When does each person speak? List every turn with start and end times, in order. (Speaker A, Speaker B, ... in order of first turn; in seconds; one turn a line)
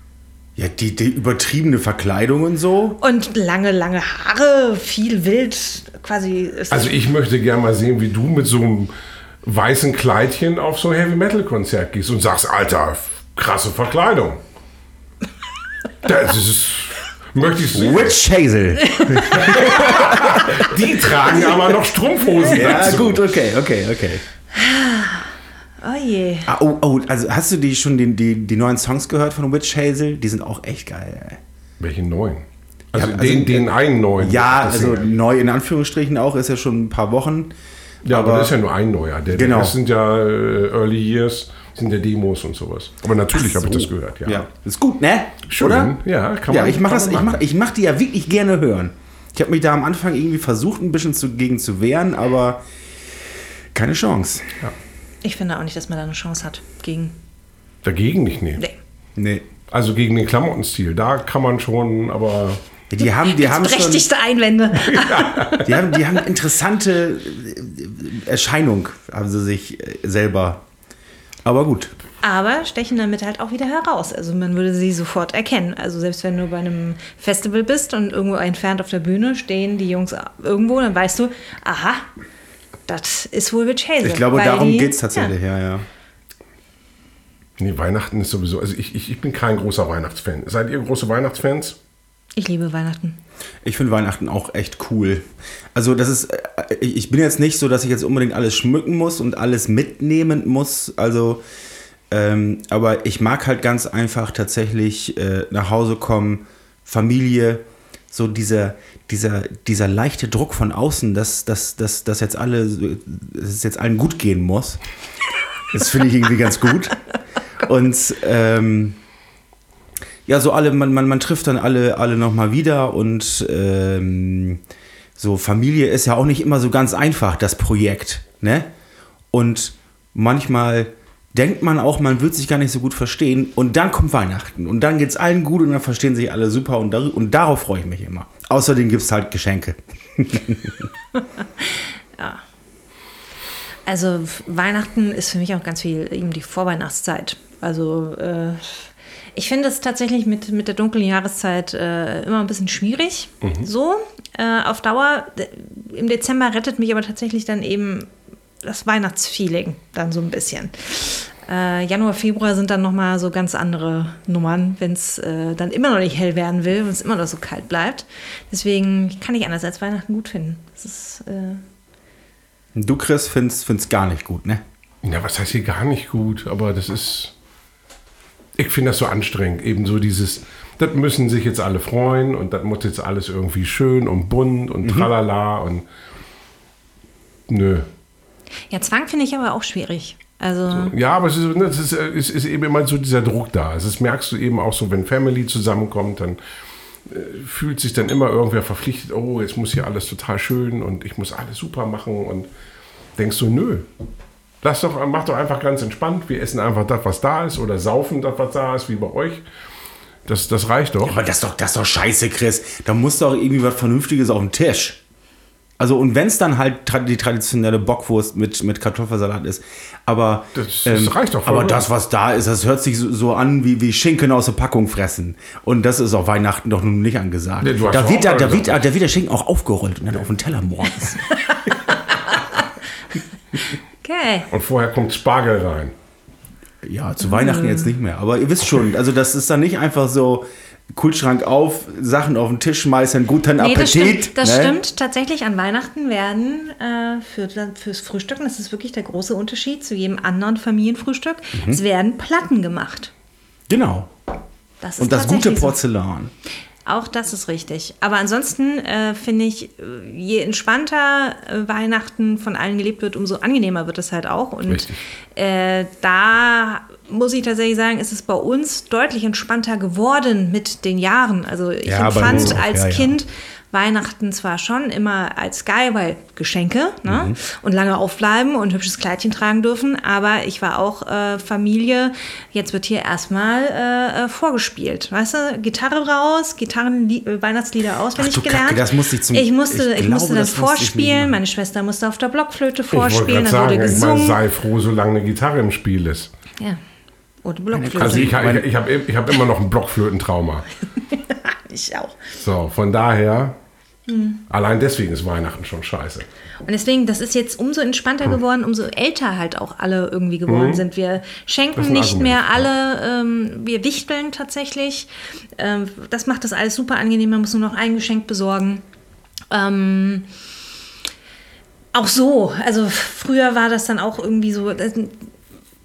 Speaker A: 0.6-3.0
Speaker B: 3.0-7.0
Speaker C: 6.7-8.9
Speaker C: 9.4-14.4
Speaker C: 16.0-18.2
Speaker A: 17.7-20.7
Speaker B: 19.0-19.5
Speaker C: 19.2-23.2
Speaker A: 22.5-24.2
Speaker B: 24.5-25.3
Speaker B: 25.8-26.5
Speaker A: 26.4-31.4
Speaker C: 31.8-35.1
Speaker A: 32.9-37.5
Speaker C: 38.0-44.5
Speaker A: 38.0-38.5
Speaker A: 39.3-39.8
Speaker A: 43.3-52.6
Speaker C: 45.5-47.4
Speaker A: 53.7-54.5
Speaker B: 55.2-57.1
Speaker C: 57.8-58.6
Speaker A: 59.1-59.5
Speaker C: 59.7-62.6
Speaker A: 62.9-64.0
Speaker B: 63.0-65.7
Speaker C: 64.9-65.7
Speaker A: 65.6-70.6
Speaker A: 71.4-71.9
Speaker B: 72.2-82.1
Speaker B: 82.9-85.3
Speaker A: 84.0-85.8
Speaker C: 87.6-91.8
Speaker B: 92.3-93.2
Speaker A: 93.6-101.4
Speaker A: 102.1-114.8
Speaker A: 115.7-117.0
Speaker A: 117.6-119.0
Speaker A: 120.2-124.6
Speaker A: 125.2-128.7
Speaker A: 129.3-140.9
Speaker B: 141.2-142.4
Speaker B: 143.8-158.1
Speaker B: 158.6-171.6
Speaker A: 172.7-174.6
Speaker C: 175.0-177.3
Speaker C: 178.6-185.8
Speaker A: 184.8-185.1
Speaker C: 187.5-187.9
Speaker B: 188.7-190.9
Speaker C: 190.7-196.4
Speaker C: 197.1-202.5
Speaker C: 203.2-203.9
Speaker C: 204.6-209.4
Speaker C: 210.2-211.2
Speaker A: 211.0-215.0
Speaker A: 215.8-231.3
Speaker C: 220.5-221.8
Speaker C: 227.6-228.8
Speaker B: 231.5-232.6
Speaker B: 234.0-234.5
Speaker C: 234.5-235.9
Speaker A: 236.8-244.8
Speaker B: 237.2-237.9
Speaker B: 243.6-253.1
Speaker A: 253.7-254.1
Speaker B: 254.8-255.8
Speaker A: 255.0-256.3
Speaker B: 256.9-294.4
Speaker C: 264.7-265.0
Speaker A: 271.9-273.2
Speaker C: 272.2-272.6
Speaker A: 277.1-277.4
Speaker A: 288.1-291.4
Speaker C: 292.9-296.3
Speaker B: 297.4-298.4
Speaker A: 297.7-298.6
Speaker C: 298.0-300.7
Speaker B: 301.1-302.2
Speaker C: 302.4-303.6
Speaker B: 304.1-304.4
Speaker C: 304.5-306.2
Speaker B: 306.6-318.8
Speaker C: 310.5-310.8
Speaker C: 311.8-312.7
Speaker B: 319.5-320.3
Speaker B: 321.9-325.2